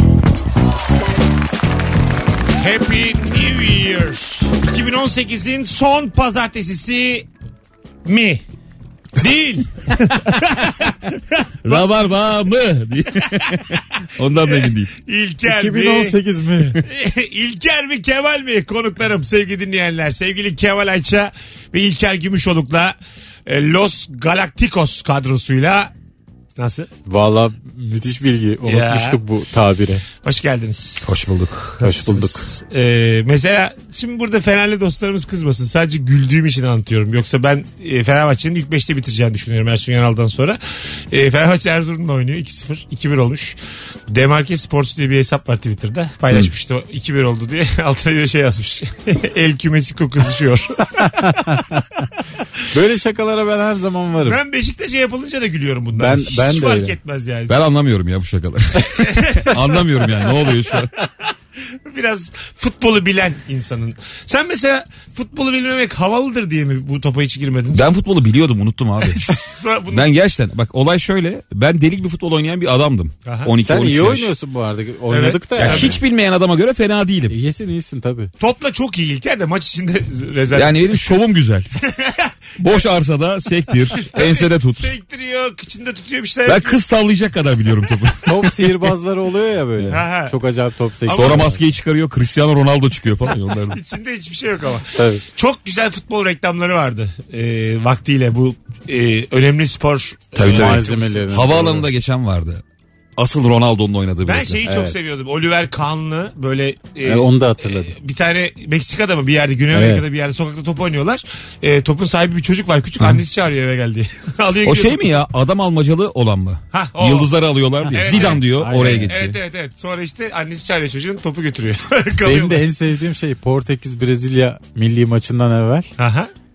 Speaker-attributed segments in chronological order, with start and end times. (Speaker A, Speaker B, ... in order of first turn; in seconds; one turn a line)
Speaker A: 2.6-7.3
Speaker A: 8.1-8.4
Speaker A: 9.2-11.8
Speaker B: 11.6-14.9
Speaker A: 14.4-25.9
Speaker C: 15.4-16.8
Speaker A: 26.6-26.9
Speaker C: 27.1-30.0
Speaker A: 28.6-29.2
Speaker A: 30.2-31.1
Speaker B: 31.0-31.8
Speaker A: 31.8-40.6
Speaker C: 31.8-32.5
Speaker A: 41.1-43.6
Speaker A: 44.1-52.0
Speaker C: 51.0-51.8
Speaker C: 52.7-54.4
Speaker A: 54.2-57.6
Speaker C: 56.0-57.0
Speaker B: 57.5-60.9
Speaker A: 58.9-59.9
Speaker A: 60.8-61.3
Speaker A: 61.9-67.9
Speaker B: 67.7-74.3
Speaker A: 69.0-70.1
Speaker A: 73.2-73.5
Speaker C: 73.6-76.0
Speaker A: 75.1-76.0
Speaker B: 75.6-77.4
Speaker C: 77.3-78.3
Speaker A: 78.4-81.0
Speaker B: 80.5-81.7
Speaker A: 81.8-82.9
Speaker B: 82.6-84.9
Speaker A: 84.0-86.8
Speaker B: 86.5-88.9
Speaker C: 88.3-91.6
Speaker A: 89.9-90.4
Speaker A: 91.1-91.5
Speaker B: 91.1-93.8
Speaker A: 93.7-101.1
Speaker C: 95.0-95.2
Speaker B: 100.4-102.6
Speaker C: 100.5-101.9
Speaker B: 103.2-104.6
Speaker A: 104.2-115.1
Speaker C: 104.6-105.0
Speaker C: 107.0-107.9
Speaker C: 109.7-110.0
Speaker B: 114.6-119.3
Speaker A: 116.7-117.3
Speaker C: 117.8-119.4
Speaker A: 117.9-122.7
Speaker C: 122.2-125.9
Speaker A: 126.0-126.3